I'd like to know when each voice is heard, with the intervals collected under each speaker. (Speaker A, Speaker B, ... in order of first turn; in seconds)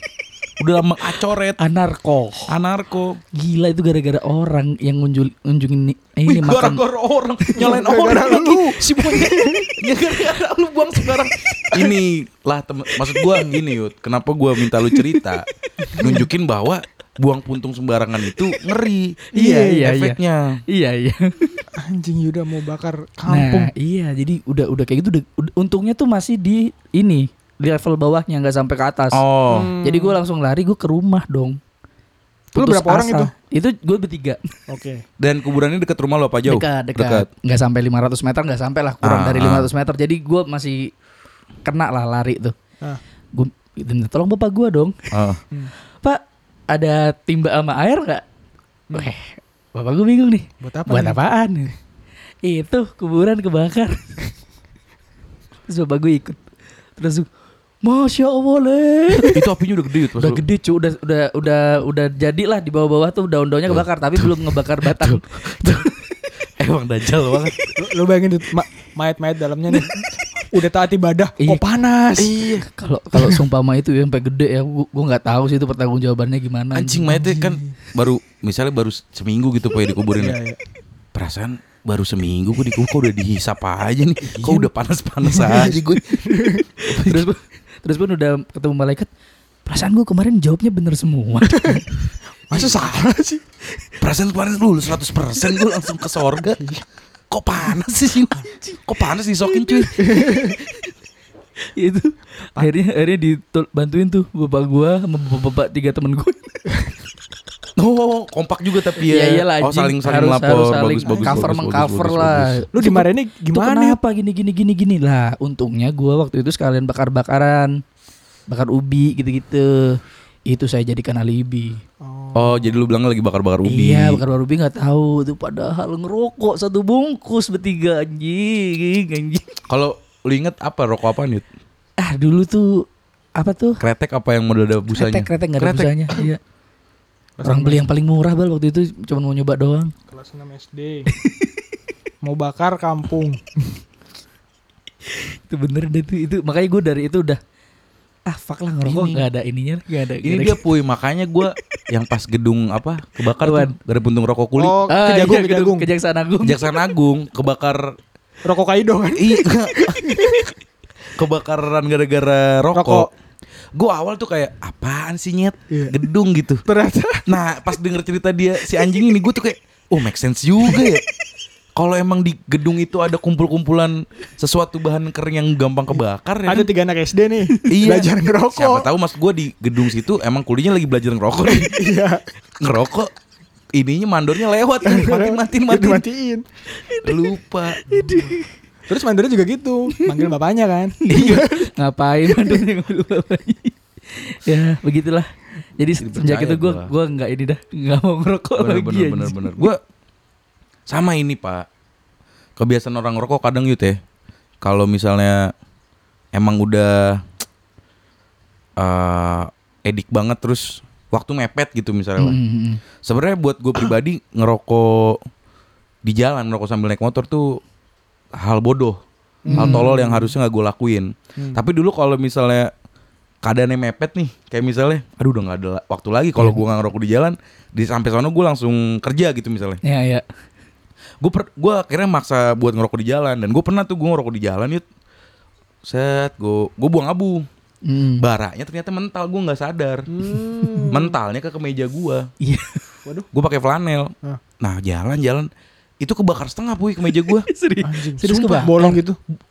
Speaker A: 0.6-1.6, 2.5-3.2, 6.2-20.6, 29.1-29.7, 35.2-37.3, 39.0-39.7, 45.1-45.4, 59.2-60.4, 63.7-65.9, 66.6-67.5, 72.2-72.7, 76.7-80.4, 81.1-86.2, 86.8-87.3, 92.5-92.8, 94.0-96.6, 97.3-100.0, 107.8-112.5, 122.3-124.2, 129.7-131.4, 133.8-135.9, 148.8-149.2, 150.2-154.8, 156.4-158.0, 159.1-160.0, 161.2-163.1, 163.7-166.6, 167.3-171.0, 171.8-176.7, 177.7-181.8, 182.6-183.1, 183.7-186.0, 187.0-187.8, 191.1-191.4, 196.0-196.9, 198.6-199.8, 200.9-201.7, 202.6-204.0, 204.6-205.5, 206.3-207.2, 208.8-212.4, 213.0-215.2, 216.0-217.6, 218.3-219.0, 219.5-222.7, 223.4-229.8, 231.2-234.8, 235.8-237.5, 238.2-240.1, 240.8-242.3, 243.3-245.5, 246.0-247.5
Speaker B: 1.6-2.5, 3.3-6.8, 14.9-15.2, 19.4-21.6, 23.3-29.2, 29.8-31.6, 32.5-34.4, 36.5-40.9, 41.6-42.5, 43.3-45.0, 46.0-48.2, 48.9-51.7, 52.4-54.1, 55.7-56.4, 57.0-57.3, 57.8-59.4, 60.1-65.9, 72.6-77.2, 86.3-89.1, 89.7-91.9, 98.4-98.8, 99.5-100.6, 101.8-106.6, 109.0-117.8, 118.5-121.8, 123.6-129.6, 132.0-133.8, 134.9-136.4, 137.4-139.9, 141.1-141.6, 145.1-147.4, 148.3-150.6, 153.4-153.7, 154.9-156.7, 186.7-188.5, 191.0-199.5, 212.2-212.8, 219.5-219.9, 229.8-230.2, 237.8-238.2, 242.4-242.8, 247.1-249.0
Speaker C: 7.5-9.7, 15.9-16.2, 19.3-19.9, 21.8-23.7, 29.5-30.2, 32.5-33.3, 34.7-35.0, 50.6-51.2, 67.8-72.4, 73.2-73.4, 77.2-77.7, 80.2-80.6, 85.3-86.7, 91.5-91.8, 92.5-93.4, 96.6-96.8, 100.0-100.6, 111.0-111.5, 112.7-114.0, 122.0-122.9, 137.4-137.9, 140.1-141.1, 142.2-143.4, 154.6-155.9, 158.4-160.5, 162.7-163.1, 166.7-167.3, 176.5-178.9, 181.5-182.2, 184.8-186.4, 188.9-191.7, 192.3-192.6, 219.4-220.3, 240.1-241.2, 247.8-249.2